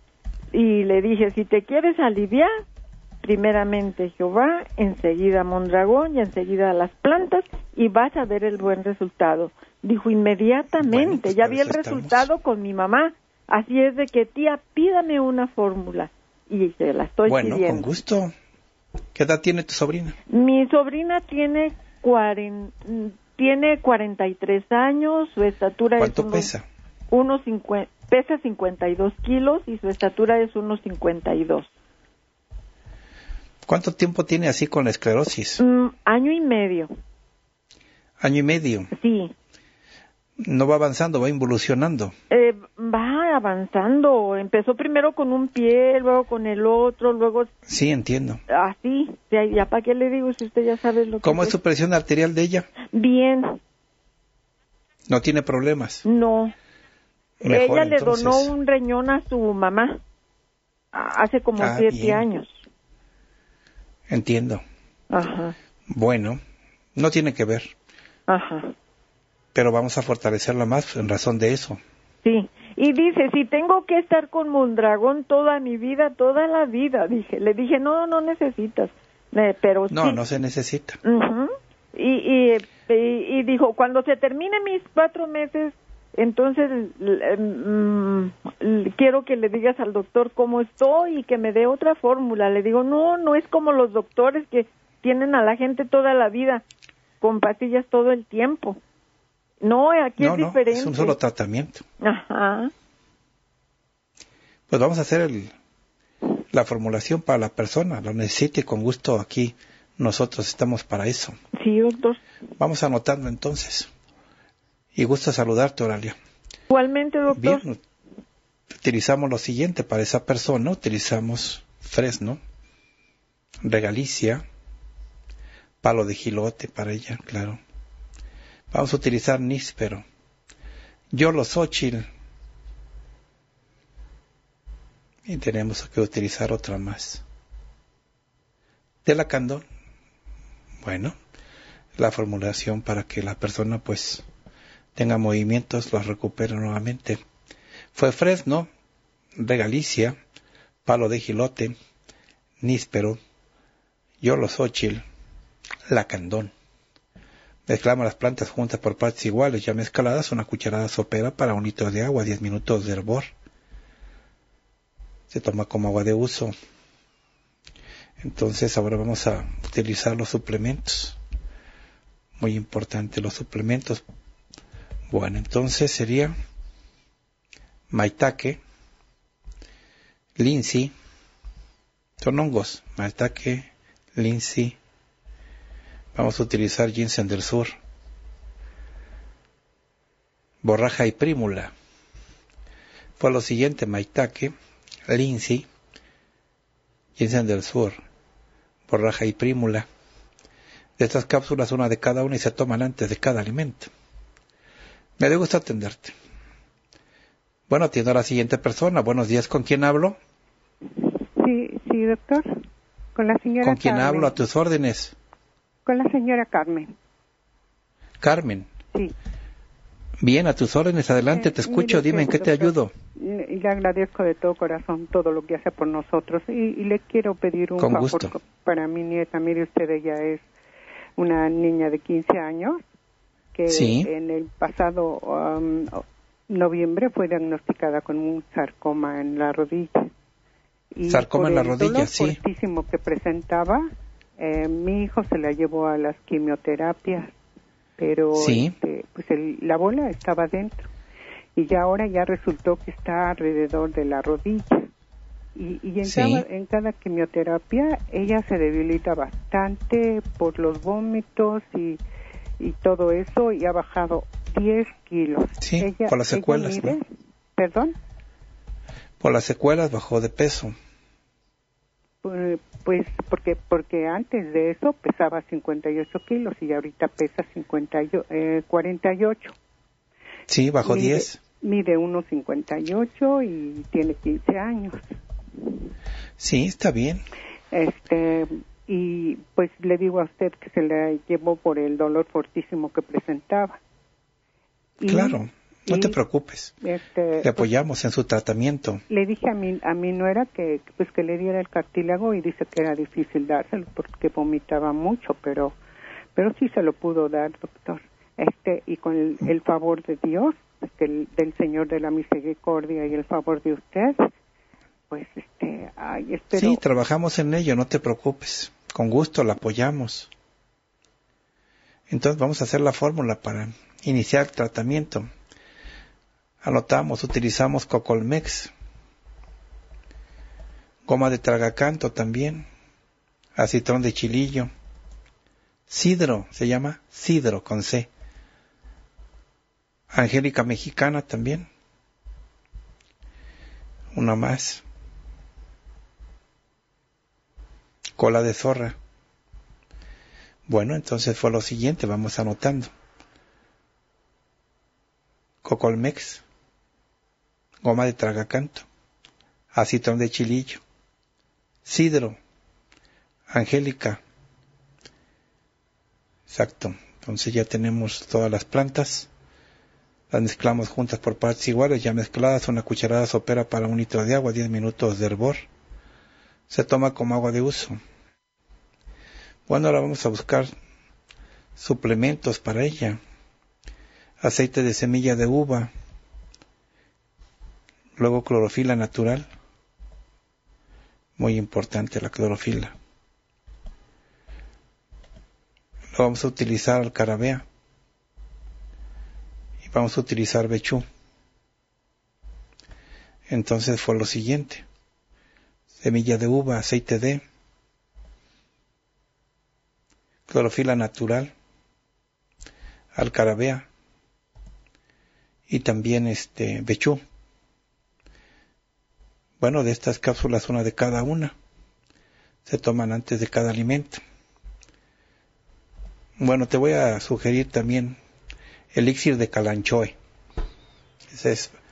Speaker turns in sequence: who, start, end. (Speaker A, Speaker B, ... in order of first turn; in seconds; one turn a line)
Speaker A: 0.5-2.5
Speaker A: 3.2-17.9
Speaker B: 10.8-12.3
Speaker B: 17.3-18.3
Speaker B: 19.1-20.2
Speaker A: 20.3-26.5
Speaker B: 26.0-26.6
Speaker A: 27.1-31.7
Speaker B: 33.7-35.6
Speaker A: 35.6-36.9
Speaker B: 38.2-38.9
Speaker A: 38.9-39.3
Speaker B: 40.4-42.1
Speaker A: 42.3-47.5
Speaker B: 47.7-48.4
Speaker A: 48.5-51.5
Speaker B: 51.2-52.7
Speaker A: 52.9-53.6
Speaker B: 55.1-56.0
Speaker A: 56.0-56.5
Speaker B: 57.4-58.5
Speaker A: 57.5-60.0
Speaker A: 60.9-62.6
Speaker B: 61.6-62.3
Speaker B: 64.1-64.6
Speaker A: 65.1-65.5
Speaker B: 65.9-66.4
Speaker B: 67.0-67.7
Speaker A: 68.3-68.7
Speaker B: 69.5-71.8
Speaker A: 72.2-80.2
Speaker B: 79.9-81.0
Speaker A: 81.0-96.6
Speaker A: 97.2-98.8
Speaker A: 99.6-101.2
Speaker B: 100.2-101.8
Speaker A: 102.0-102.7
Speaker B: 104.7-105.5
Speaker B: 106.5-111.3
Speaker A: 111.6-112.2
Speaker B: 112.6-113.9
Speaker B: 115.0-116.2
Speaker A: 116.7-117.6
Speaker B: 117.3-117.8
Speaker B: 118.7-122.4
Speaker B: 123.6-124.4
Speaker B: 125.8-127.6
Speaker B: 128.7-130.0
Speaker B: 131.1-132.1
Speaker B: 135.3-137.2
Speaker B: 139.1-139.6
Speaker B: 140.8-141.1
Speaker B: 142.0-144.2
Speaker B: 145.0-147.2
Speaker B: 147.9-148.7
Speaker B: 149.4-150.2
Speaker B: 150.9-151.8
Speaker B: 152.6-153.2
Speaker B: 154.2-155.0
Speaker B: 155.9-156.5
Speaker B: 157.7-163.3
Speaker B: 165.3-166.5
Speaker B: 168.2-171.2
Speaker B: 172.4-174.0
Speaker B: 175.1-176.4
Speaker B: 177.9-178.6
Speaker B: 180.4-180.9
Speaker B: 182.2-184.8
Speaker B: 186.1-187.8
Speaker B: 190.6-191.7
Speaker B: 193.2-194.5
Speaker B: 195.1-195.7
Speaker B: 197.2-198.0
Speaker B: 198.9-199.9
Speaker B: 201.0-203.9
Speaker B: 205.2-206.1
Speaker B: 207.7-210.2
Speaker C: 211.0-212.6
Speaker C: 213.1-214.4
Speaker B: 213.6-215.1
Speaker C: 215.8-216.9
Speaker B: 218.2-218.7
Speaker B: 220.2-222.9
Speaker C: 221.3-230.4
Speaker B: 227.8-228.4
Speaker C: 231.2-232.8
Speaker C: 233.5-240.1
Speaker B: 233.7-234.1
Speaker C: 240.9-243.9
Speaker B: 241.1-242.4
Speaker C: 244.4-247.3
Speaker C: 248.0-250.9
Speaker B: 248.3-248.8
Speaker C: 251.6-254.8
Speaker C: 255.6-262.0
Speaker B: 256.0-256.4
Speaker C: 262.6-267.0
Speaker B: 265.6-267.0
Speaker C: 267.6-268.0
Speaker B: 269.2-270.7
Speaker C: 272.2-279.6
Speaker B: 280.5-281.4
Speaker C: 280.8-285.0
Speaker B: 286.4-287.2
Speaker C: 287.7-293.8
Speaker C: 295.0-296.2
Speaker B: 295.1-296.7
Speaker C: 296.8-297.7
Speaker B: 297.4-299.0
Speaker C: 299.1-305.8
Speaker C: 306.4-314.2
Speaker C: 315.1-316.8
Speaker B: 316.5-320.3
Speaker B: 322.1-325.3
Speaker B: 326.6-328.7
Speaker B: 331.1-332.7
Speaker B: 333.6-334.7
Speaker B: 335.9-338.1
Speaker B: 340.1-341.7
Speaker B: 344.1-344.8
Speaker B: 348.2-349.0
Speaker B: 350.7-352.9
Speaker B: 355.6-356.4
Speaker B: 357.8-358.9
Speaker B: 359.7-360.8
Speaker B: 361.9-362.4
Speaker B: 363.5-364.2
Speaker B: 366.5-369.3
Speaker B: 370.3-375.7
Speaker B: 376.7-378.0
Speaker B: 379.7-380.7
Speaker B: 381.8-383.2
Speaker B: 384.4-385.9
Speaker B: 388.2-389.5
Speaker B: 391.4-392.9
Speaker B: 396.1-397.6
Speaker B: 399.8-401.0
Speaker B: 403.5-404.9
Speaker B: 406.0-407.4
Speaker B: 410.5-411.5
Speaker B: 413.1-413.9
Speaker B: 415.7-417.2
Speaker B: 419.6-421.5
Speaker B: 422.7-424.2
Speaker B: 426.4-428.2
Speaker B: 428.9-430.2
Speaker B: 431.3-431.8